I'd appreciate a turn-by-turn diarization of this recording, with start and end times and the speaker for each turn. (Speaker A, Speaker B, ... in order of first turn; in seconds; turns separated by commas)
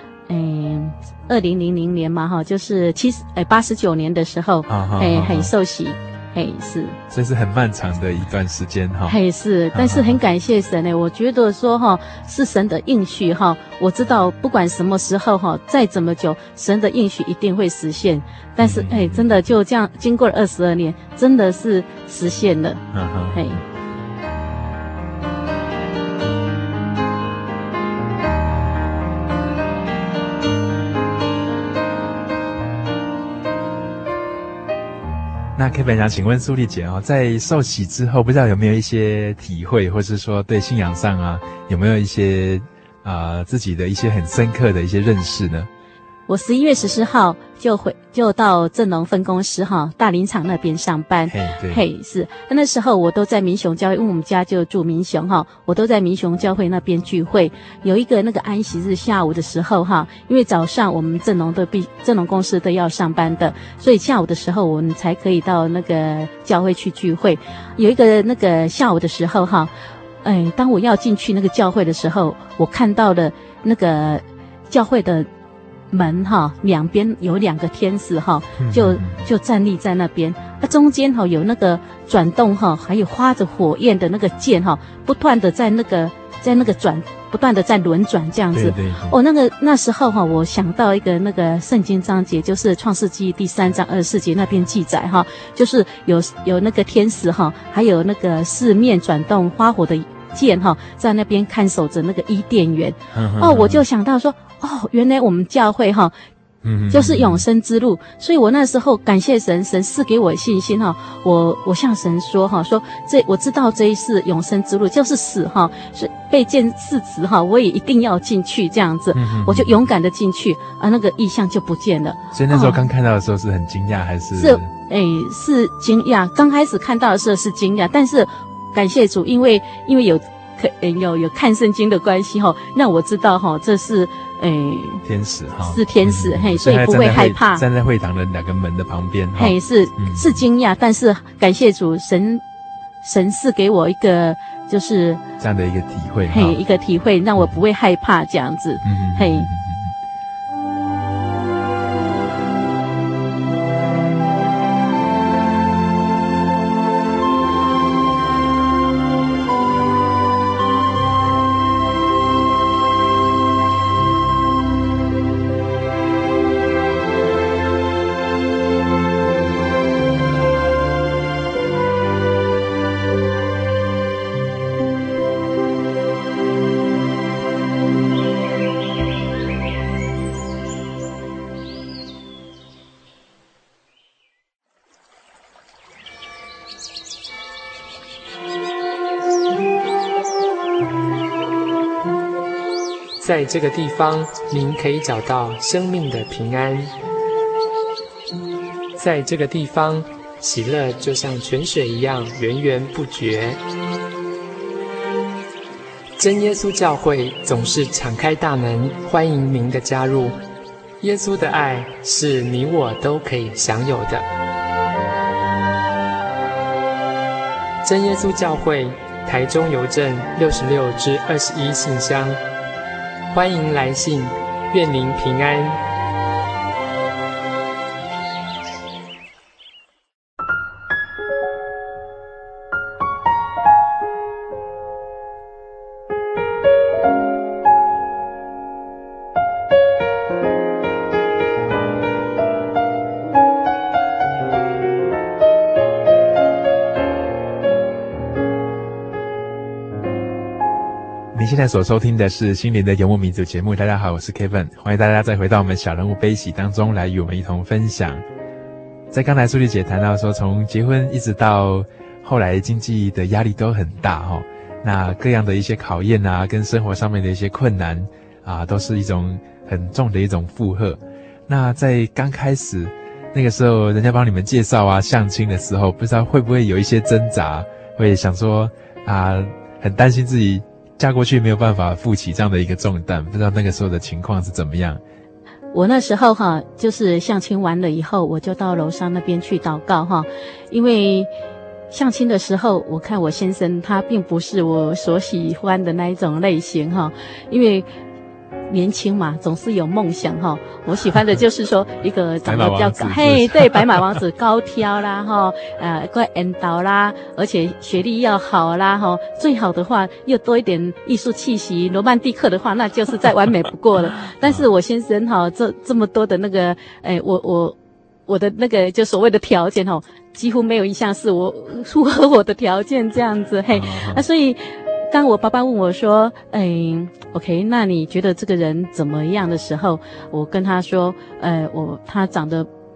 Speaker A: 0.3-7.0, Speaker B: 4.7-5.5, Speaker B: 7.1-9.2, Speaker A: 9.1-23.6, Speaker B: 9.7-10.2, Speaker B: 18.6-19.4, Speaker B: 22.9-23.6, Speaker B: 35.6-45.7, Speaker A: 46.3-69.7, Speaker B: 51.3-51.9, Speaker A: 70.2-75.3, Speaker A: 75.9-106.1, Speaker B: 78.6-79.3, Speaker B: 88.5-89.2, Speaker B: 103.1-103.8, Speaker B: 106.6-107.4, Speaker A: 106.9-122.8, Speaker B: 119.1-119.8, Speaker B: 122.3-124.7, Speaker A: 124.4-135.0, Speaker B: 135.1-140.4, Speaker A: 135.6-137.6, Speaker A: 139.4-142.4, Speaker A: 143.0-145.2, Speaker B: 145.4-146.6, Speaker A: 146.3-149.5, Speaker B: 148.8-149.9, Speaker C: 193.2-196.9, Speaker C: 199.0-203.6, Speaker C: 206.2-210.4, Speaker C: 211.0-214.3, Speaker C: 217.8-222.4, Speaker C: 223.3-225.8, Speaker B: 251.3-258.2, Speaker B: 259.1-285.0, Speaker A: 285.7-291.3, Speaker A: 291.9-297.9, Speaker A: 298.7-317.8, Speaker B: 302.4-304.2, Speaker A: 318.3-332.7, Speaker B: 323.7-324.2